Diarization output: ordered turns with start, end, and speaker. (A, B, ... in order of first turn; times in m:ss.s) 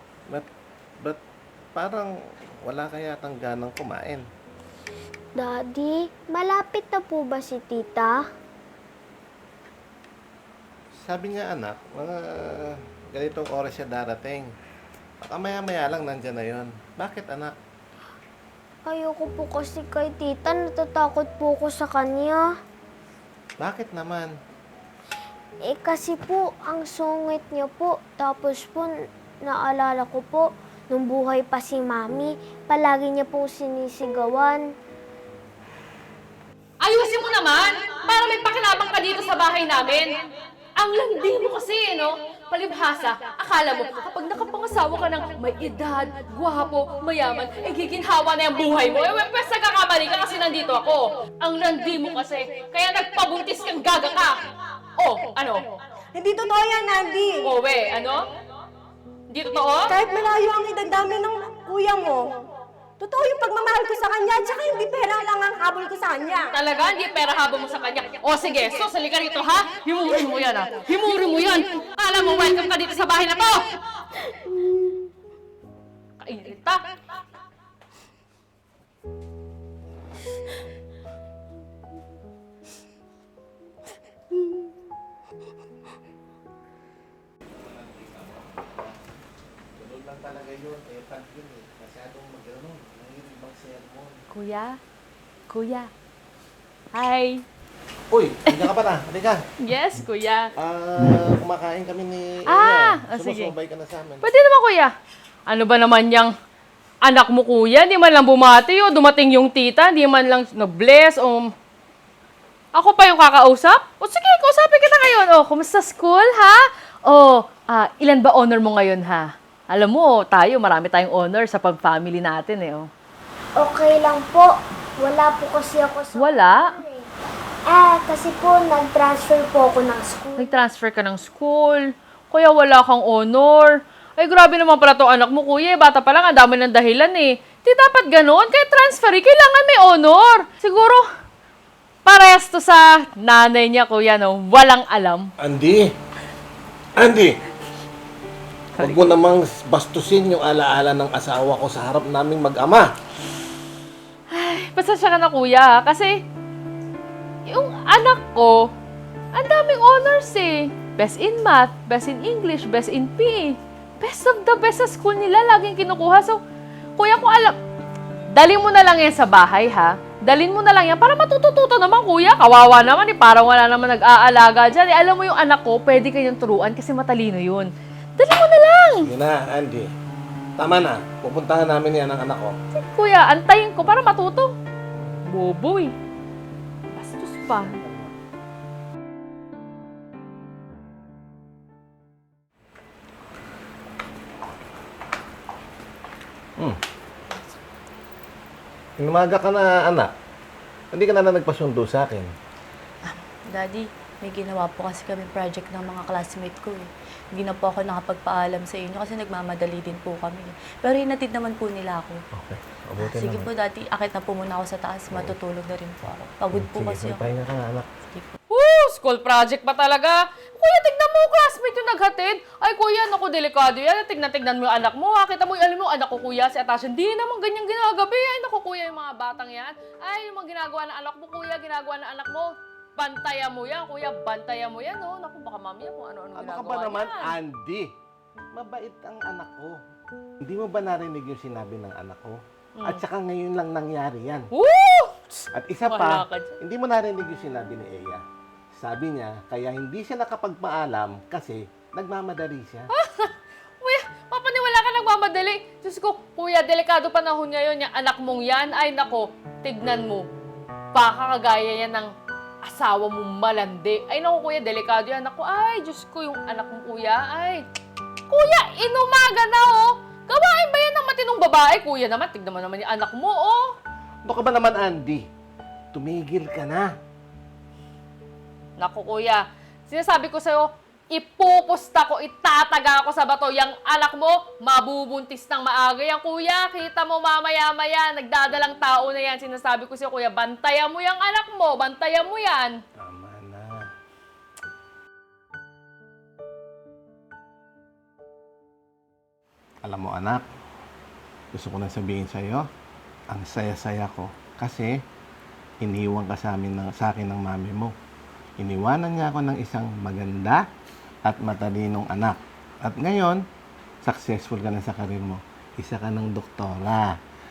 0:01.8-0:02.1 A
0:02.7-0:04.2 A
0:05.4-0:08.2 B
0:11.1-0:14.5 A
0:15.3-0:17.5 A
0:18.8-0:22.5 B
0:23.6-0:24.3 A
0:25.7-0:34.6 B
0:36.8-0:40.1 C
0:40.8-0:54.4 C
0:55.0-0:55.6 C
0:56.1-0:57.5 D
0:57.4-0:58.3 C
0:59.3-0:59.9 C
0:59.8-1:02.5 D
1:03.0-1:06.6 D
1:06.6-1:13.8 C
1:16.2-1:16.8 C
1:27.5-1:29.0 A
1:29.8-1:34.2 A
1:34.3-1:34.8 C
1:35.5-1:35.9 C
1:36.9-1:37.4 C
1:38.1-1:39.4 A
1:39.6-1:40.5 C
1:40.6-1:44.3 A
1:42.5-1:43.5 C
1:44.2-1:44.9 C
1:45.5-1:46.3 C
1:47.0-1:51.5 C
1:52.8-2:02.9 C
2:03.6-2:07.1 B
2:06.2-2:06.7 C
2:07.7-2:10.6 B
2:10.4-2:21.0 C
2:22.1-2:25.3 C
2:25.4-2:25.9 A
2:27.0-2:27.4 A
2:28.8-2:32.9 A
2:34.3-2:36.2 C
2:37.5-2:38.7 C
2:39.3-2:46.4 C
2:47.0-2:47.6 C
2:48.3-2:59.0 C
2:59.0-2:59.9 A
3:00.6-3:02.6 A
3:02.7-3:04.5 C
3:05.3-3:05.9 C
3:06.9-3:07.7 C
3:07.5-3:08.2 A
3:19.0-3:20.1 A
3:20.9-3:22.3 A
3:23.1-3:32.2 E
3:32.3-3:33.5 A
3:33.0-3:37.3 E
3:35.1-3:35.4 A
3:36.5-3:37.9 A
3:38.5-3:57.3 C
3:56.4-3:57.9 A
3:58.5-3:59.8 A
4:00.4-4:04.5 A
4:04.6-4:06.5 C
4:05.5-4:08.2 A
4:08.8-4:12.9 A
4:13.0-4:20.3 C
4:20.9-4:22.1 C
4:22.6-4:27.6 C
4:28.3-4:33.7 C
4:34.2-4:35.2 A
4:35.9-4:36.9 A
4:38.8-4:52.8 C
4:53.0-4:53.9 A
4:59.8-5:00.4 A
5:01.5-5:02.6 A
5:03.3-5:04.9 A
5:05.8-5:07.9 A
5:08.6-5:10.6 A
5:11.2-5:13.4 A
5:14.0-5:17.1 A